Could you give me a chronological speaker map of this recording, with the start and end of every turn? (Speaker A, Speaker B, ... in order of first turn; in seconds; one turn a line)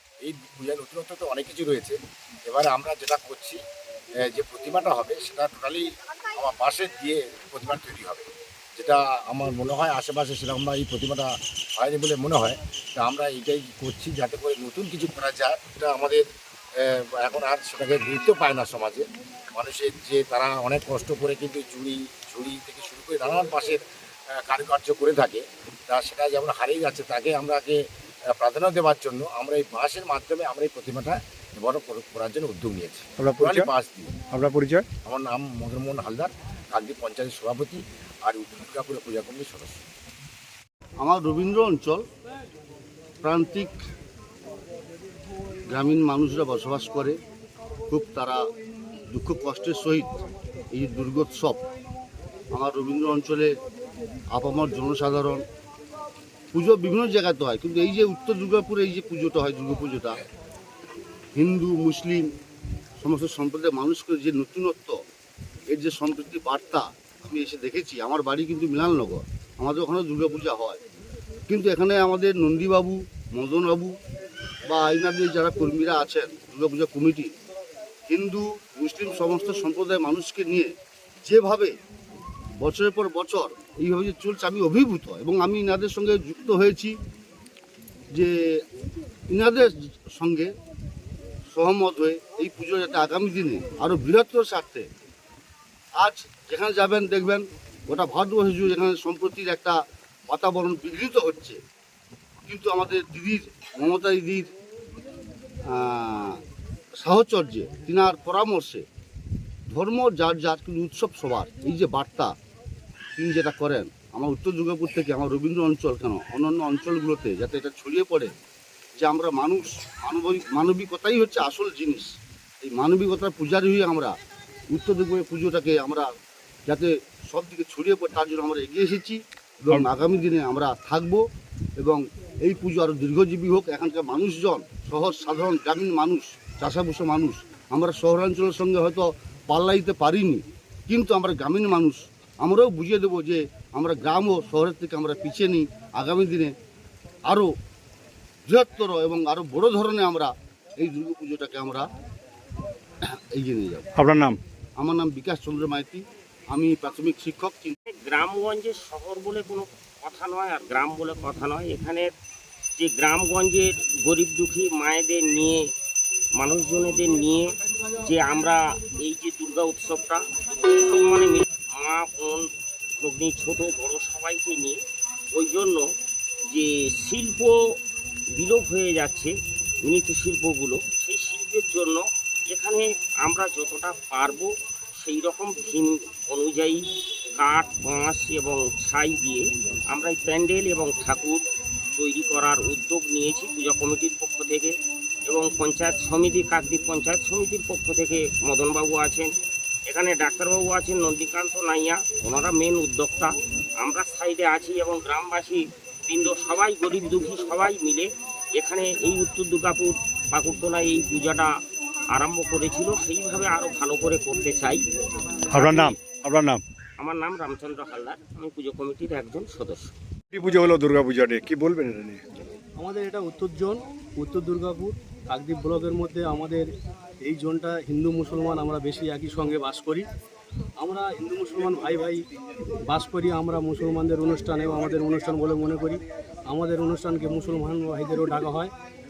Speaker A: 0.2-3.6
Speaker A: 4.2-16.2
Speaker A: 16.8-23.8
Speaker A: 24.4-27.8
Speaker A: 28.3-34.1
Speaker B: 33.2-33.7
Speaker B: 34.3-34.9
Speaker A: 35.0-39.8
Speaker C: 41.0-42.0
Speaker C: 43.2-43.8
Speaker C: 45.7-47.2
Speaker C: 47.9-48.4
Speaker C: 49.1-51.6
Speaker C: 52.5-53.5
Speaker C: 54.3-55.4
Speaker C: 56.5-60.2
Speaker C: 61.4-62.3
Speaker C: 63.0-65.0
Speaker C: 65.7-70.8
Speaker C: 71.5-74.0
Speaker C: 74.7-77.3
Speaker C: 78.1-81.8
Speaker C: 82.6-87.0
Speaker C: 88.1-88.6
Speaker C: 89.3-90.5
Speaker C: 91.5-94.9
Speaker C: 96.0-101.6
Speaker C: 102.5-104.5
Speaker C: 105.7-106.4
Speaker C: 107.0-108.8
Speaker C: 109.7-112.3
Speaker C: 113.2-118.3
Speaker C: 119.0-124.2
Speaker C: 124.7-126.1
Speaker C: 126.7-131.2
Speaker C: 131.8-146.5
Speaker C: 147.3-147.5
Speaker C: 148.5-151.9
Speaker C: 153.0-153.9
Speaker B: 154.0-154.4
Speaker C: 154.8-157.8
Speaker D: 157.9-162.1
Speaker D: 162.8-165.6
Speaker D: 166.4-167.5
Speaker D: 168.0-172.5
Speaker D: 173.0-174.8
Speaker D: 175.3-175.8
Speaker D: 176.5-177.6
Speaker D: 178.3-179.3
Speaker D: 179.8-186.8
Speaker D: 187.4-191.4
Speaker D: 192.0-194.7
Speaker D: 195.3-199.3
Speaker D: 199.9-211.5
Speaker D: 212.1-214.8
Speaker B: 215.5-216.6
Speaker D: 215.6-216.0
Speaker D: 217.0-219.9
Speaker B: 220.3-222.2
Speaker E: 222.8-226.7
Speaker E: 227.2-230.1
Speaker E: 230.8-232.2
Speaker E: 232.9-238.7